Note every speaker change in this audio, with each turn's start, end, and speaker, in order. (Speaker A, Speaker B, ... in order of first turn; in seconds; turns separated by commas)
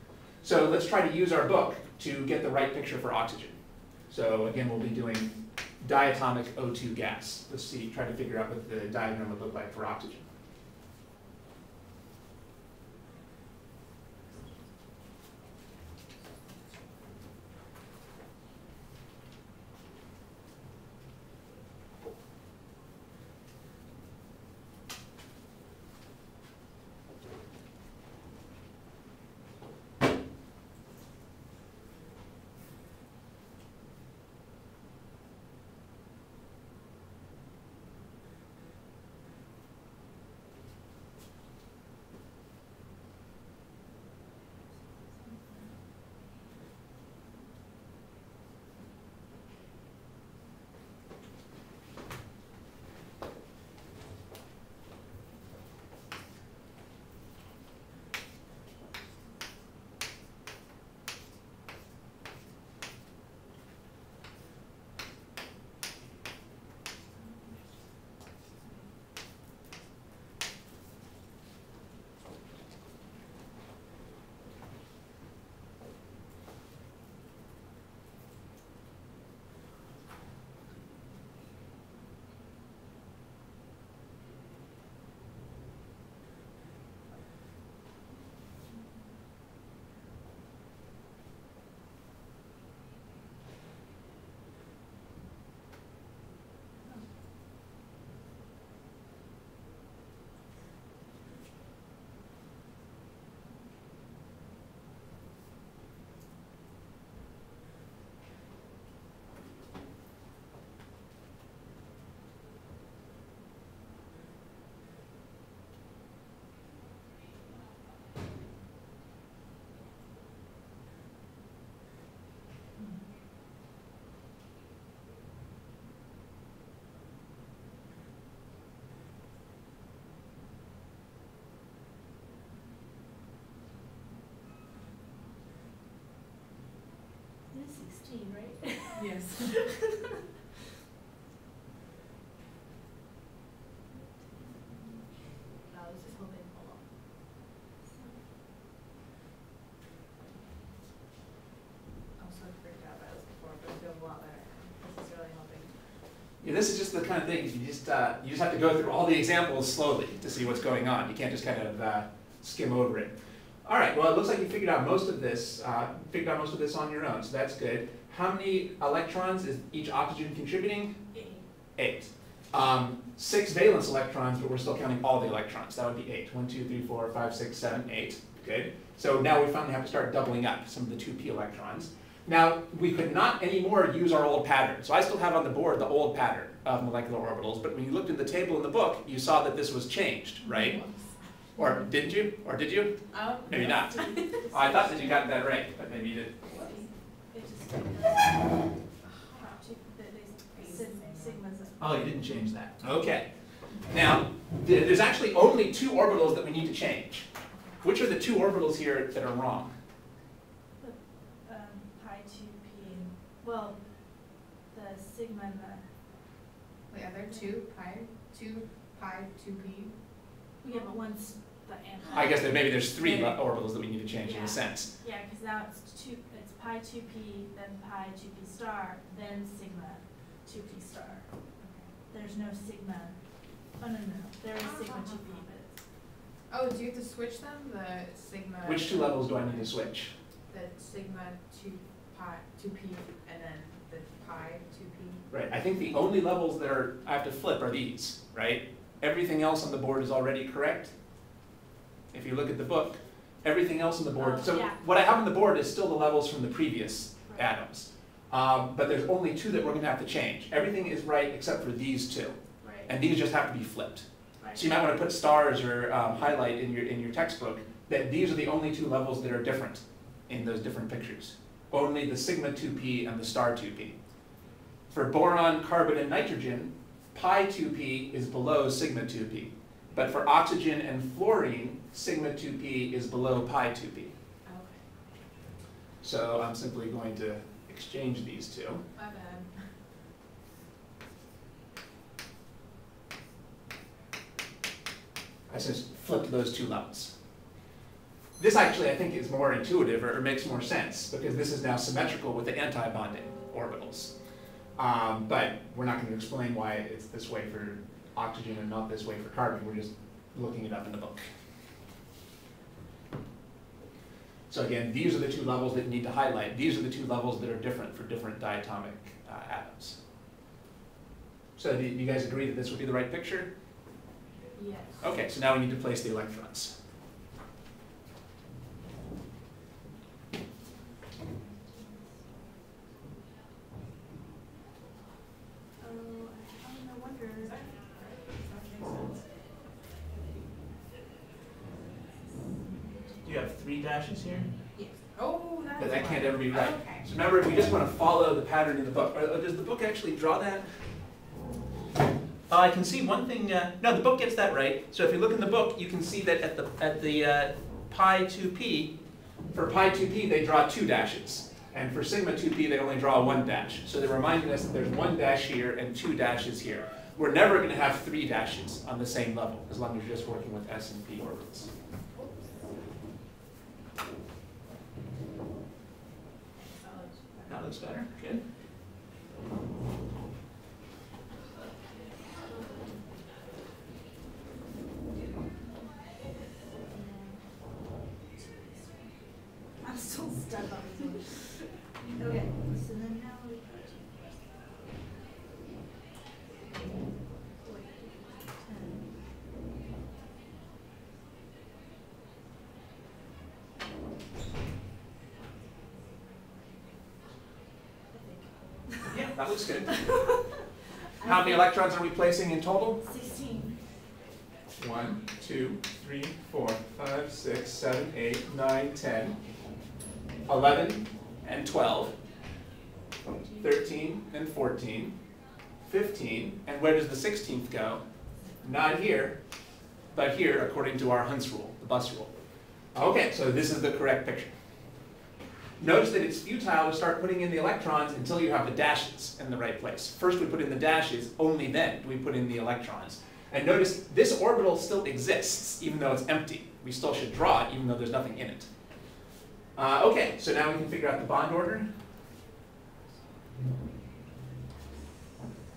Speaker A: 0.4-3.6, Speaker A: 4.1-10.2, Speaker B: 137.5-140.1, Speaker C: 138.9-139.6, Speaker B: 143.9-146.6, Speaker C: 145.8-146.7, Speaker B: 147.9-148.2, Speaker C: 152.2-155.8, Speaker A: 156.4-163.1, Speaker A: 163.6-171.0, Speaker B: 171.1-171.4, Speaker A: 171.8-190.8, Speaker C: 190.4-191.2, Speaker A: 191.6-196.4, Speaker B: 191.6-191.9, Speaker C: 193.1-194.5, Speaker B: 193.6-195.4, Speaker B: 196.4-198.8, Speaker C: 196.5-196.9, Speaker C: 199.0-199.6, Speaker B: 199.3-201.9, Speaker C: 200.6-201.4, Speaker A: 201.8-203.3, Speaker A: 203.9-207.3, Speaker C: 207.5-207.8, Speaker A: 207.8-209.7, Speaker B: 210.8-215.9, Speaker C: 216.9-220.0, Speaker B: 220.6-223.5, Speaker A: 222.1-224.9, Speaker B: 224.2-235.8, Speaker C: 231.6-232.0, Speaker C: 234.6-235.4, Speaker C: 236.5-239.7, Speaker A: 238.6-240.1, Speaker C: 240.5-245.3, Speaker A: 245.3-250.9, Speaker A: 252.1-273.9, Speaker B: 254.2-254.8, Speaker B: 257.3-257.5, Speaker B: 262.6-262.9, Speaker B: 264.4-264.7, Speaker A: 274.9-284.1, Speaker C: 284.4-284.8, Speaker A: 286.0-288.8, Speaker C: 288.9-289.7, Speaker A: 295.5-297.1, Speaker A: 298.4-304.1, Speaker A: 304.8-311.2, Speaker A: 314.5-320.0, Speaker A: 321.6-323.5, Speaker C: 324.6-325.0, Speaker A: 325.0-326.7, Speaker B: 331.4-332.2, Speaker B: 335.8-337.7, Speaker C: 337.4-339.2, Speaker A: 343.2-344.5, Speaker C: 344.8-347.1, Speaker A: 345.8-350.6, Speaker A: 352.5-358.9, Speaker A: 359.5-371.7, Speaker C: 372.1-372.7, Speaker C: 376.8-377.6, Speaker A: 377.5-378.4, Speaker B: 381.9-383.1, Speaker B: 386.9-394.7, Speaker B: 397.6-399.1, Speaker B: 408.1-410.6, Speaker A: 409.1-410.0, Speaker B: 411.2-411.7, Speaker A: 411.2-413.0, Speaker B: 413.0-413.8, Speaker A: 414.8-419.4, Speaker A: 420.5-422.1, Speaker B: 423.3-423.8, Speaker A: 423.6-425.1, Speaker A: 425.8-428.0, Speaker A: 428.6-429.4, Speaker A: 430.1-432.3, Speaker A: 432.9-434.5, Speaker A: 435.8-448.7, Speaker A: 449.8-451.9